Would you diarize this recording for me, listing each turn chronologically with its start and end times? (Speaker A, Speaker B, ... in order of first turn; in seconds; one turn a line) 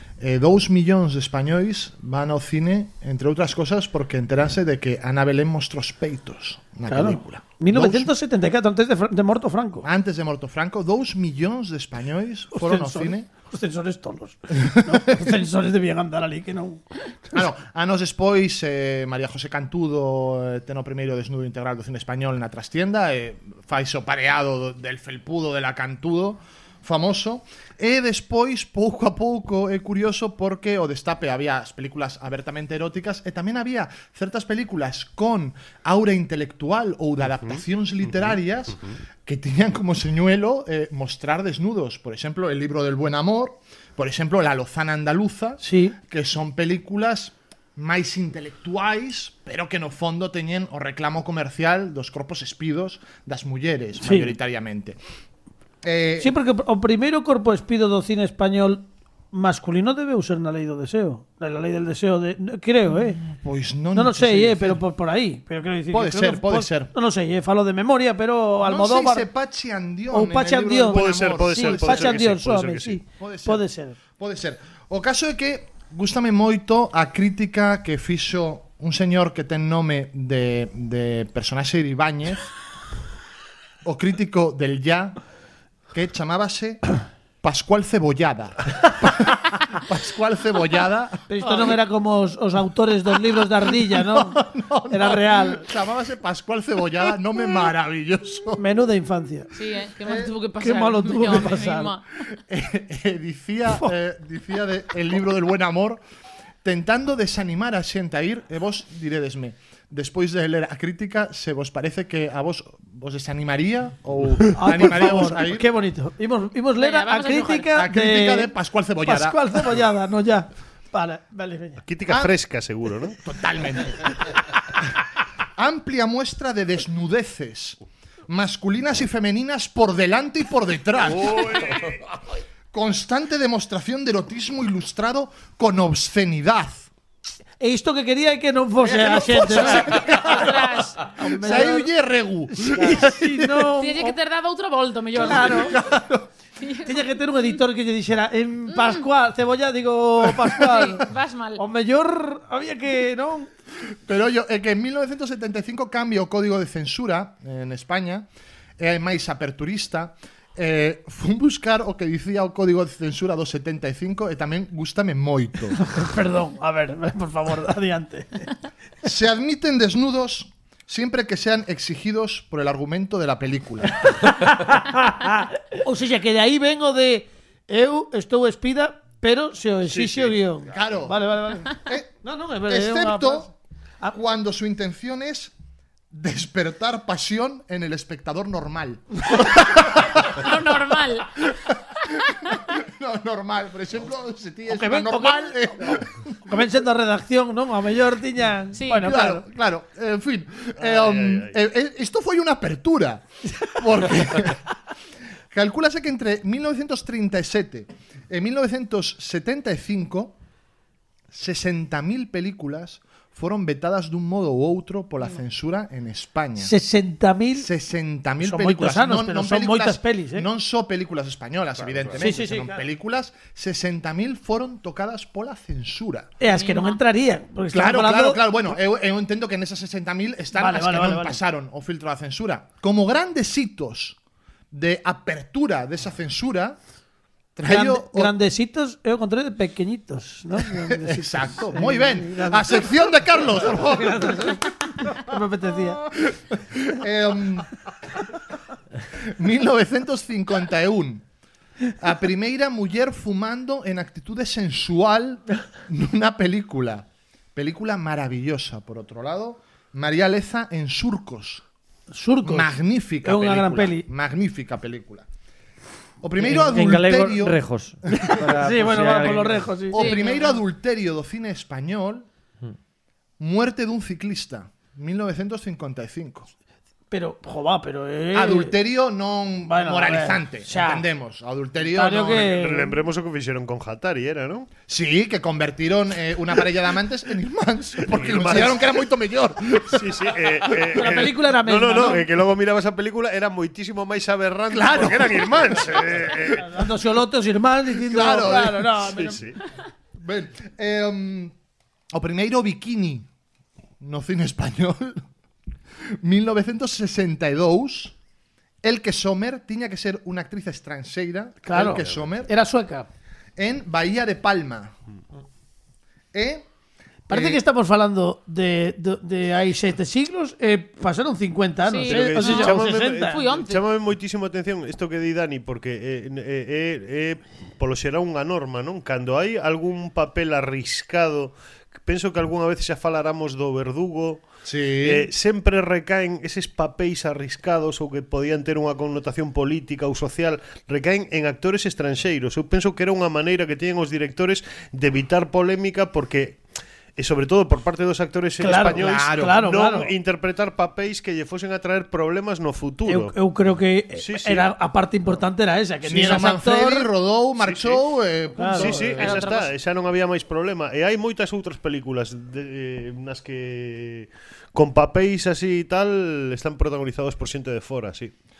Speaker A: 0.2-8.1
Speaker B: 6.9-9.8
Speaker A: 9.8-13.3
Speaker B: 12.5-17.3
Speaker A: 14.6-15.0
Speaker A: 17.3-55.0
Speaker C: 37.4-38.9
Speaker B: 45.6-46.0
Speaker B: 54.0-54.3
Speaker A: 55.8-56.3
Speaker B: 56.2-63.2
Speaker A: 63.2-64.8
Speaker B: 63.9-69.3
Speaker A: 65.9-66.9
Speaker A: 68.6-72.2
Speaker B: 70.1-74.0
Speaker C: 70.9-73.0
Speaker A: 73.2-82.5
Speaker A: 83.8-85.2
Speaker A: 85.9-91.2
Speaker B: 91.3-94.4
Speaker A: 93.9-98.6
Speaker B: 94.9-95.7
Speaker B: 98.6-99.5
Speaker D: 99.5-102.0
Speaker A: 100.0-100.3
Speaker B: 100.6-101.9
Speaker A: 102.3-106.0
Speaker A: 106.6-115.7
Speaker B: 114.5-121.8
Speaker D: 116.8-117.8
Speaker A: 117.7-119.7
Speaker C: 121.8-123.2
Speaker A: 123.2-124.4
Speaker A: 125.6-132.0
Speaker C: 131.2-131.8
Speaker A: 132.7-136.9
Speaker B: 137.6-141.9
Speaker A: 138.8-143.7
Speaker D: 139.7-141.7
Speaker B: 142.6-144.2
Speaker D: 143.8-145.8
Speaker B: 145.2-145.7
Speaker A: 145.2-146.3
Speaker D: 146.6-147.6
Speaker B: 146.8-151.0
Speaker D: 148.7-149.0
Speaker D: 150.6-151.6
Speaker B: 151.6-153.5
Speaker A: 154.1-158.3
Speaker A: 158.8-165.8
Speaker B: 165.8-168.5
Speaker A: 169.0-174.3
Speaker B: 174.5-183.5
Speaker C: 179.8-180.7
Speaker A: 180.7-183.5
Speaker A: 184.1-185.5
Speaker A: 186.1-190.5
Speaker D: 189.8-191.3
Speaker A: 191.4-196.4
Speaker B: 194.7-199.4
Speaker D: 198.8-199.1
Speaker A: 199.0-204.7
Speaker C: 200.8-201.6
Speaker A: 205.5-210.3
Speaker A: 211.3-216.7
Speaker B: 216.6-217.7
Speaker A: 217.5-226.3
Speaker B: 218.4-220.5
Speaker C: 221.8-222.2
Speaker B: 222.2-222.9
Speaker B: 226.4-228.4
Speaker D: 226.4-227.0
Speaker A: 227.7-234.2
Speaker B: 230.5-231.4
Speaker A: 234.7-236.8
Speaker A: 237.6-238.3
Speaker B: 237.7-242.9
Speaker A: 240.9-245.2
Speaker B: 243.6-246.0
Speaker A: 246.1-247.8
Speaker A: 249.2-251.2
Speaker A: 252.0-261.6
Speaker B: 262.1-264.1
Speaker A: 262.4-265.2
Speaker A: 266.2-267.6
Speaker E: 266.4-269.7
Speaker B: 268.3-270.2
Speaker A: 269.9-272.2
Speaker D: 269.9-270.6
Speaker A: 273.4-276.5
Speaker B: 277.1-278.7
Speaker A: 278.3-282.5
Speaker B: 279.6-281.1
Speaker B: 281.8-283.0
Speaker C: 282.4-284.7
Speaker A: 284.9-290.8
Speaker C: 288.0-289.0
Speaker C: 289.9-296.8
Speaker B: 290.9-292.3
Speaker A: 294.7-296.5
Speaker B: 296.6-299.4
Speaker A: 297.9-299.0
Speaker C: 299.1-299.6
Speaker A: 300.2-301.5
Speaker A: 302.1-303.3
Speaker A: 304.0-305.2
Speaker A: 306.2-308.1
Speaker A: 308.8-312.5
Speaker B: 311.6-313.1
Speaker A: 313.6-314.9
Speaker A: 316.3-316.6
Speaker A: 317.3-317.6
Speaker B: 317.3-323.5
Speaker D: 321.9-323.8
Speaker C: 322.0-334.4
Speaker A: 334.6-335.3
Speaker C: 335.0-346.6
Speaker C: 347.1-353.3
Speaker B: 348.6-350.1
Speaker A: 348.7-349.6
Speaker B: 353.1-357.1
Speaker C: 354.2-354.7
Speaker A: 356.0-359.5
Speaker C: 357.6-358.0
Speaker B: 358.6-359.0
Speaker C: 358.7-368.3
Speaker D: 359.2-359.7